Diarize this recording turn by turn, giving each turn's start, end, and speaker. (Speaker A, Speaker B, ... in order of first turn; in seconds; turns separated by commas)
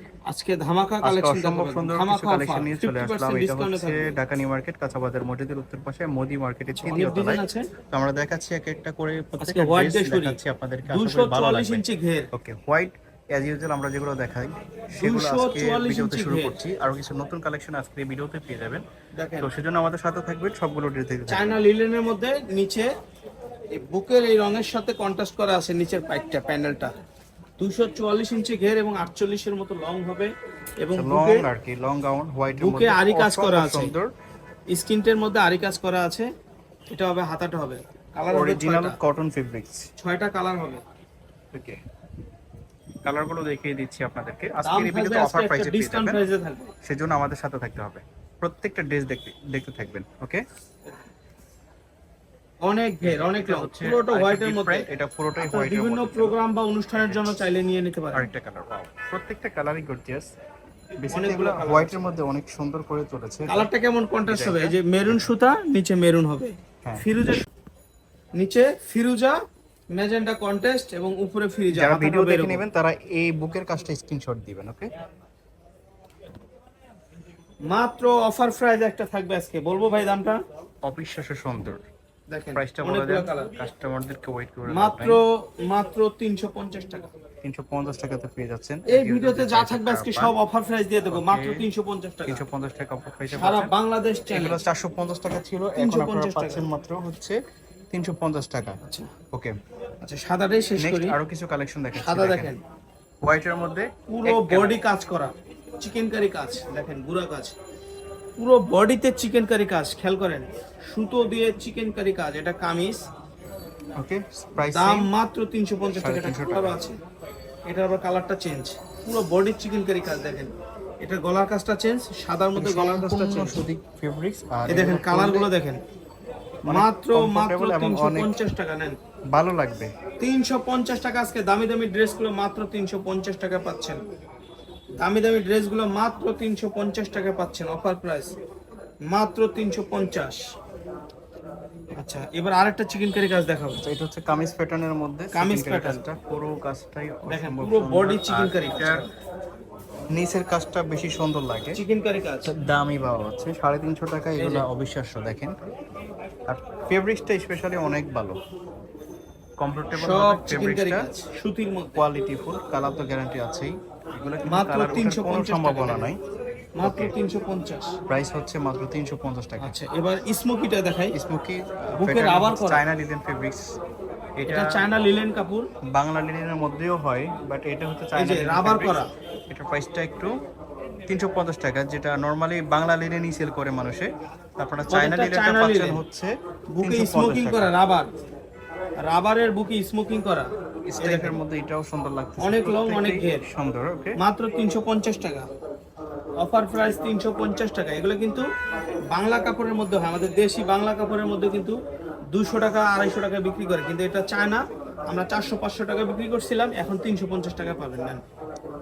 Speaker A: 0.3-4.1, Speaker B: 1.0-18.8, Speaker A: 6.8-7.7, Speaker A: 9.4-12.3, Speaker A: 15.0-16.6, Speaker A: 19.2-19.5, Speaker B: 19.4-21.6, Speaker A: 21.3-22.9, Speaker A: 23.7-26.9, Speaker A: 27.6-31.5, Speaker B: 30.9-34.1, Speaker A: 32.6-33.9, Speaker A: 34.7-36.3, Speaker A: 36.9-39.0, Speaker B: 38.3-39.9, Speaker A: 40.0-40.8, Speaker B: 41.5-41.8, Speaker B: 43.0-46.2, Speaker A: 44.6-46.7, Speaker B: 46.8-50.4, Speaker A: 52.6-54.9, Speaker B: 53.0-56.4, Speaker A: 55.4-58.3, Speaker B: 57.0-57.4, Speaker B: 58.1-60.3, Speaker B: 61.0-63.7, Speaker A: 61.0-62.0, Speaker A: 63.5-67.5, Speaker B: 64.3-65.3, Speaker A: 68.4-69.4, Speaker A: 69.9-72.6, Speaker B: 71.7-74.9, Speaker A: 77.7-80.4, Speaker B: 80.8-81.9, Speaker A: 82.3-83.5, Speaker B: 82.5-85.2, Speaker A: 84.7-87.1, Speaker B: 87.4-90.3, Speaker A: 88.9-92.4, Speaker B: 91.1-91.6, Speaker B: 92.3-93.7, Speaker A: 93.3-94.6, Speaker B: 94.3-97.4, Speaker A: 95.8-96.7, Speaker B: 97.9-98.8, Speaker A: 98.8-99.1, Speaker A: 100.0-101.2, Speaker B: 100.8-102.5, Speaker A: 101.9-102.6, Speaker B: 103.2-104.8, Speaker A: 104.1-107.6, Speaker A: 108.4-113.0, Speaker B: 114.0-115.1, Speaker A: 114.6-117.0, Speaker B: 116.0-116.8, Speaker A: 117.7-123.6, Speaker B: 122.6-125.5, Speaker A: 124.7-125.8, Speaker B: 126.7-128.4, Speaker A: 126.7-129.0, Speaker B: 129.3-129.9, Speaker A: 130.2-134.0, Speaker A: 135.0-138.3, Speaker A: 139.1-140.4, Speaker A: 142.0-143.8, Speaker B: 143.8-149.0, Speaker A: 145.3-146.1, Speaker A: 147.2-149.1, Speaker B: 150.1-151.8, Speaker A: 151.7-152.5, Speaker B: 152.4-155.6, Speaker A: 154.4-154.7, Speaker B: 156.5-158.4, Speaker B: 159.6-161.1, Speaker A: 159.9-162.0, Speaker B: 161.9-166.2, Speaker A: 164.5-166.1, Speaker A: 166.8-167.9, Speaker B: 166.8-167.1, Speaker B: 168.1-169.8, Speaker A: 169.6-171.2, Speaker B: 171.1-173.7, Speaker A: 171.9-172.8, Speaker B: 174.4-174.8, Speaker A: 174.5-175.7, Speaker B: 175.9-180.3, Speaker A: 178.2-179.1, Speaker B: 181.1-187.7, Speaker A: 184.9-186.0, Speaker A: 186.8-188.1, Speaker A: 189.1-191.4, Speaker B: 190.9-194.2, Speaker A: 192.4-193.4, Speaker A: 194.2-195.5, Speaker A: 196.4-198.5, Speaker A: 199.1-201.8, Speaker A: 202.3-208.2